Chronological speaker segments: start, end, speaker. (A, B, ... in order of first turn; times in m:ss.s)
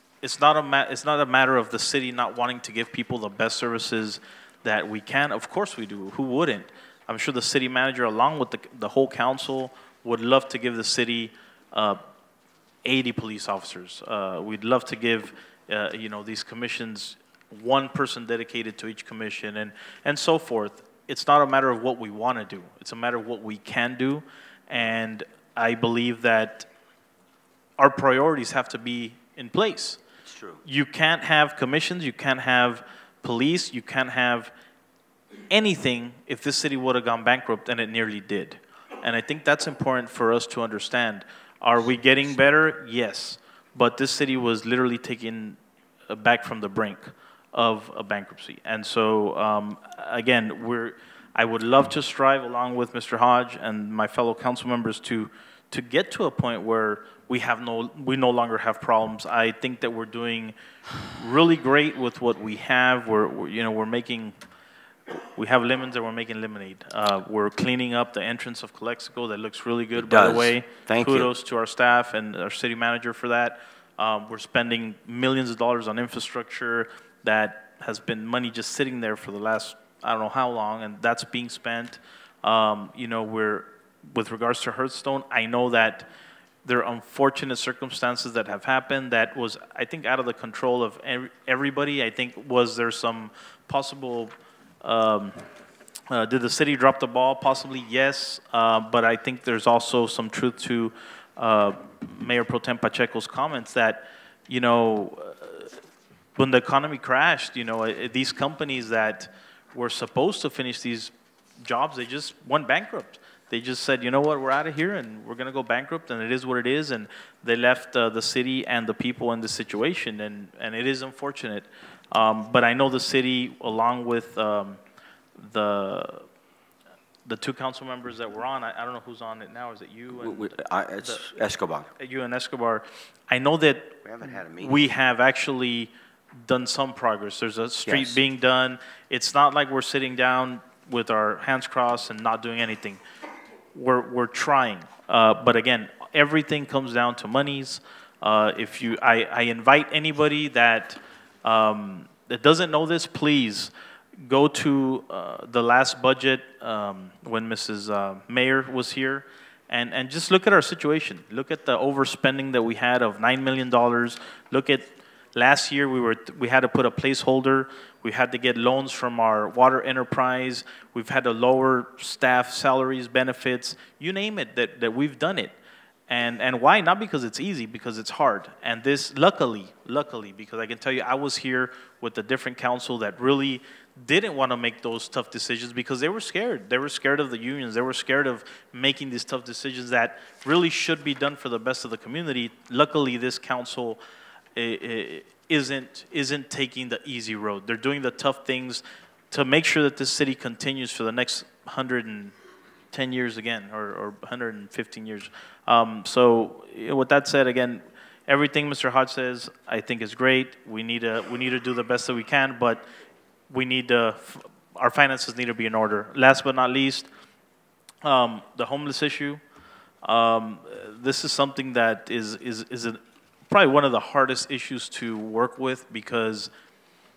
0:00.2-0:12.0 A
0:12.8-0:26.7 A
0:27.8-0:30.0 A
0:30.2-0:30.6 B
0:30.6-0:34.5 A
0:35.5-1:00.5 A
1:01.1-1:04.4 A
1:05.1-1:26.1 A
1:10.0-1:11.3 B
1:26.6-1:35.4 A
1:36.1-1:45.8 A
1:46.4-2:04.8 A
2:05.3-2:06.3 A
2:07.2-2:11.2 A
2:10.2-2:11.9 B
2:12.0-2:23.0 A
2:14.0-2:14.8 B
2:17.8-2:18.2 B
2:23.7-2:33.7 A
2:34.2-2:55.5 A
2:56.1-3:14.0 A
3:14.5-3:22.3 A
3:22.9-3:32.8 A
3:33.5-3:37.1 A
3:38.0-3:39.4 A
3:40.0-3:46.5 A